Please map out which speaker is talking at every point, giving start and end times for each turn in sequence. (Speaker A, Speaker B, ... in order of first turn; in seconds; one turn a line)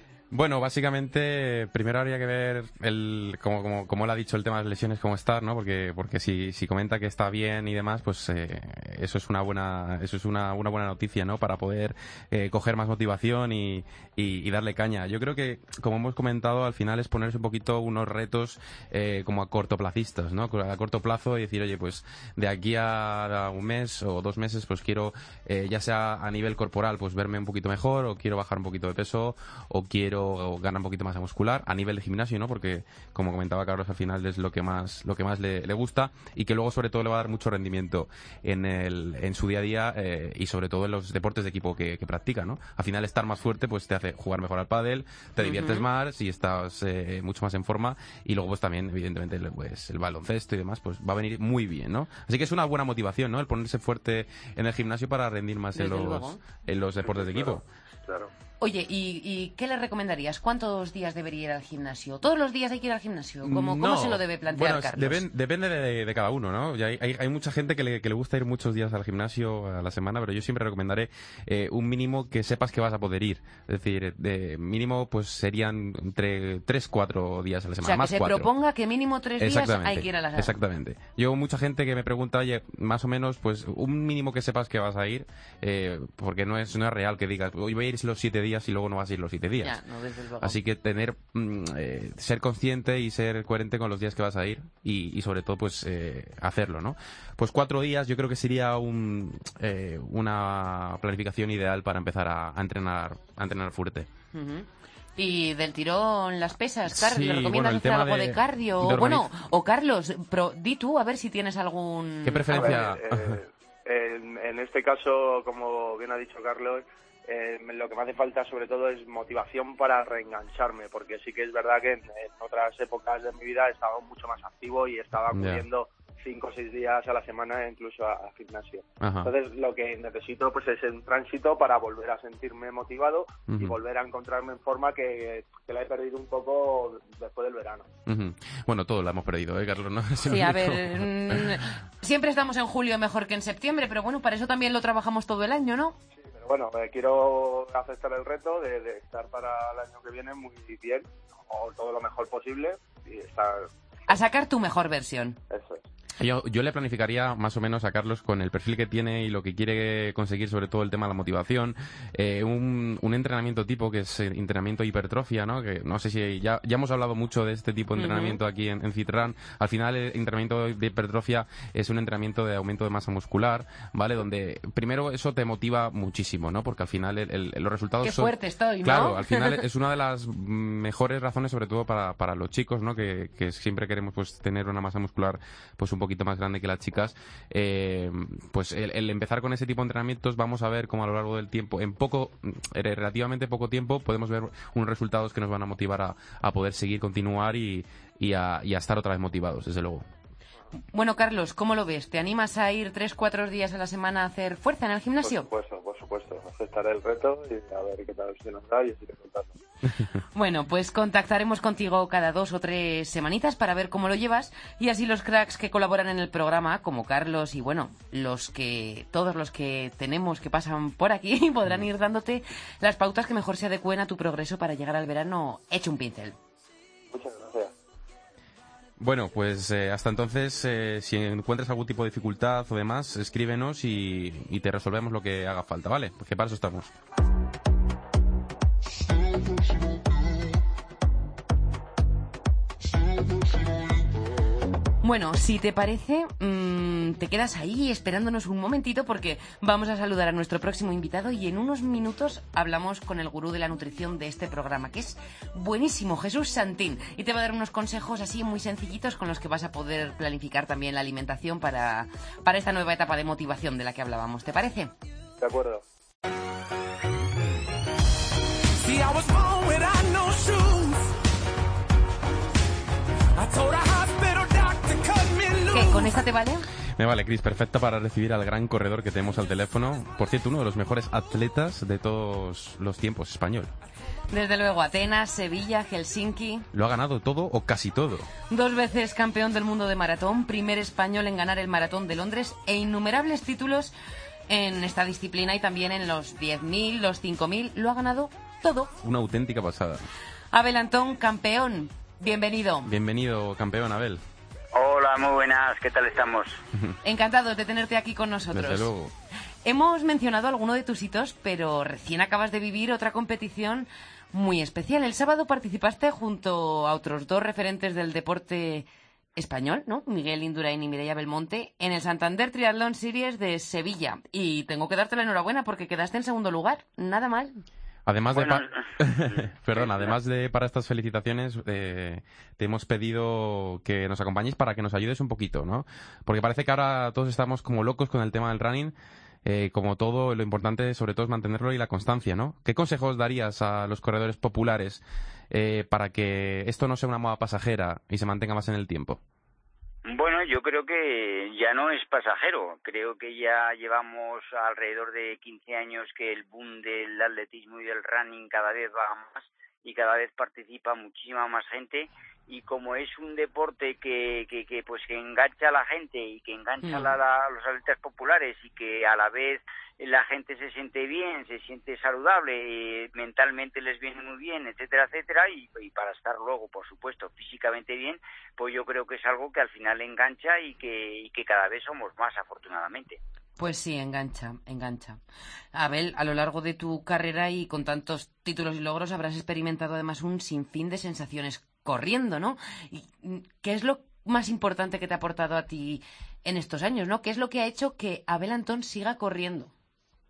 Speaker A: 0.3-57.6
Speaker B: 45.4-45.9
Speaker B: 55.7-56.4
Speaker C: 57.0-58.3
Speaker B: 58.6-65.2
Speaker A: 63.4-78.5
Speaker B: 77.8-80.5
Speaker A: 79.4-89.8
Speaker B: 89.6-90.6
Speaker A: 90.4-104.1
Speaker B: 104.3-112.8
Speaker A: 106.9-109.3
Speaker A: 112.2-113.3
Speaker C: 112.5-137.9
Speaker A: 125.3-125.6
Speaker A: 129.0-129.3
Speaker A: 133.5-133.8
Speaker A: 138.1-141.6
Speaker B: 140.2-146.0
Speaker C: 146.2-153.7
Speaker B: 154.1-155.4
Speaker C: 155.5-155.8
Speaker A: 156.2-200.0
Speaker B: 167.9-168.4
Speaker B: 178.0-179.6
Speaker B: 200.9-205.5
Speaker C: 205.2-209.6
Speaker B: 210.3-226.3
Speaker C: 227.1-227.7
Speaker A: 229.0-236.9
Speaker B: 245.0-264.9
Speaker C: 265.4-265.8
Speaker D: 268.8-271.1
Speaker D: 273.4-276.2
Speaker B: 275.7-276.7
Speaker A: 276.9-283.7
Speaker B: 284.3-286.7
Speaker A: 286.7-288.3
Speaker B: 288.5-293.9
Speaker B: 294.5-298.9
Speaker A: 299.0-300.1
Speaker B: 300.5-302.9
Speaker A: 302.8-304.2
Speaker E: 304.7-306.6
Speaker B: 307.0-308.9
Speaker A: 308.5-309.1
Speaker B: 309.6-327.6
Speaker A: 328.1-338.9
Speaker E: 328.3-330.1
Speaker A: 339.4-349.2
Speaker E: 350.0-383.2
Speaker B: 366.8-367.1
Speaker B: 383.6-385.2
Speaker B: 385.7-399.7